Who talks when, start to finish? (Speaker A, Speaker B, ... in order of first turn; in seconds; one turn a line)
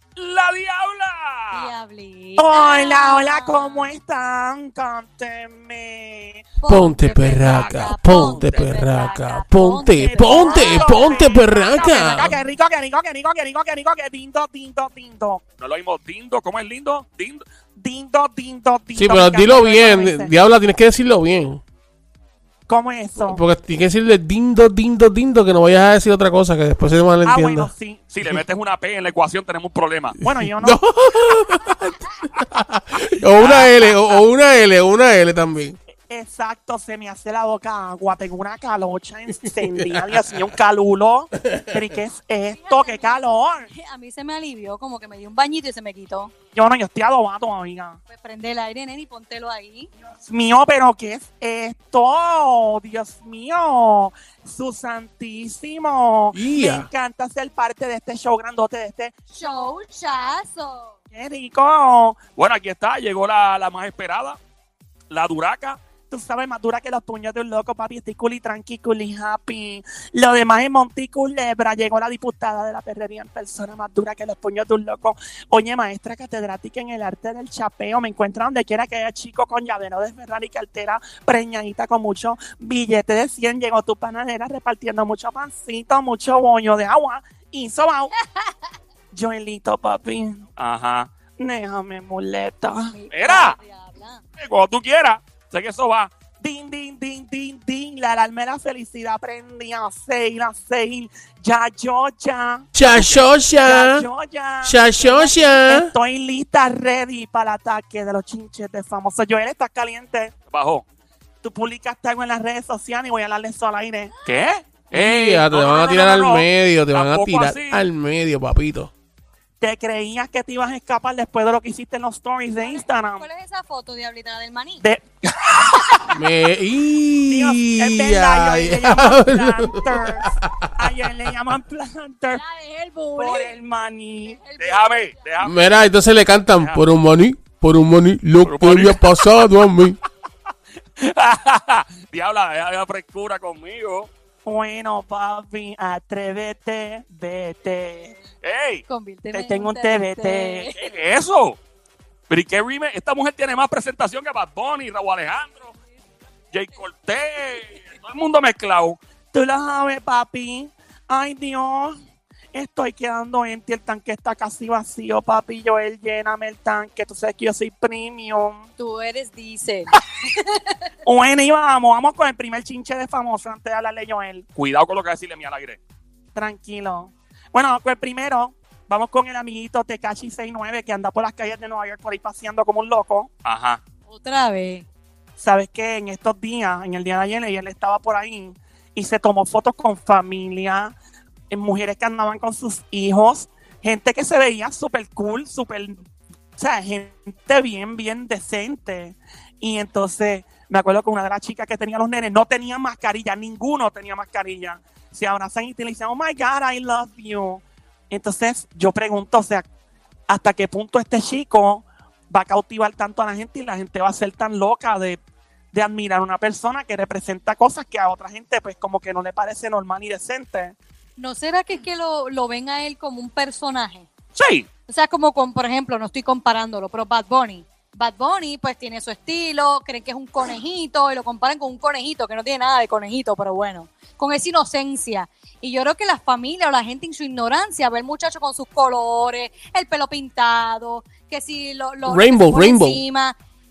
Speaker A: 0.2-1.7
Speaker B: 1.5-3.9
Speaker C: 2.4-6.5
Speaker B: 6.6-12.3
Speaker D: 6.7-12.3
Speaker A: 7.4-8.5
Speaker C: 9.9-15.4
Speaker A: 15.6-17.4
Speaker C: 17.8-20.3
Speaker D: 18.9-21.6
Speaker C: 22.7-23.4
Speaker D: 23.2-27.7
Speaker C: 27.2-28.0
Speaker A: 28.1-30.2
Speaker D: 30.2-35.8
Speaker C: 30.2-30.8
Speaker A: 33.4-34.2
Speaker C: 36.1-43.7
Speaker D: 39.4-40.5
Speaker D: 41.4-42.0
Speaker B: 42.5-46.3
Speaker C: 46.5-48.0
Speaker B: 48.1-49.9
Speaker C: 50.2-59.2
Speaker D: 56.3-56.9
Speaker B: 59.3-61.0
Speaker C: 61.1-62.2
Speaker A: 62.4-64.4
Speaker A: 65.1-65.8
Speaker C: 66.1-88.1
Speaker C: 89.1-90.4
Speaker A: 90.6-91.1
Speaker C: 91.4-92.9
Speaker B: 92.9-94.2
Speaker A: 93.1-93.6
Speaker A: 94.4-96.1
Speaker C: 96.4-110.3
Speaker D: 102.7-104.1
Speaker D: 104.6-105.9
Speaker A: 110.5-110.8
Speaker C: 111.4-114.1
Speaker A: 114.2-117.8
Speaker D: 114.9-118.9
Speaker C: 119.6-123.2
Speaker B: 122.6-124.8
Speaker C: 124.8-126.1
Speaker D: 126.1-130.9
Speaker C: 127.2-132.4
Speaker B: 132.3-133.6
Speaker C: 133.2-134.4
Speaker B: 134.4-135.2
Speaker A: 134.6-135.9
Speaker D: 135.4-140.0
Speaker A: 136.6-136.8
Speaker A: 138.4-139.2
Speaker A: 141.0-144.1
Speaker C: 144.4-148.1
Speaker A: 148.4-148.8
Speaker B: 148.9-150.8
Speaker C: 149.3-150.7
Speaker A: 150.7-151.6
Speaker A: 152.3-155.7
Speaker A: 156.5-159.0
Speaker C: 159.3-161.9
Speaker C: 162.5-168.7
Speaker B: 168.8-170.7
Speaker C: 171.0-174.4
Speaker A: 174.6-175.8
Speaker C: 176.3-183.3
Speaker A: 183.4-183.8
Speaker B: 184.1-184.8
Speaker C: 185.4-190.9
Speaker C: 191.5-196.1
Speaker C: 196.6-209.7
Speaker C: 210.3-215.2
Speaker C: 215.7-220.8
Speaker B: 221.2-224.1
Speaker A: 224.3-224.7
Speaker B: 224.9-243.4
Speaker D: 242.1-243.0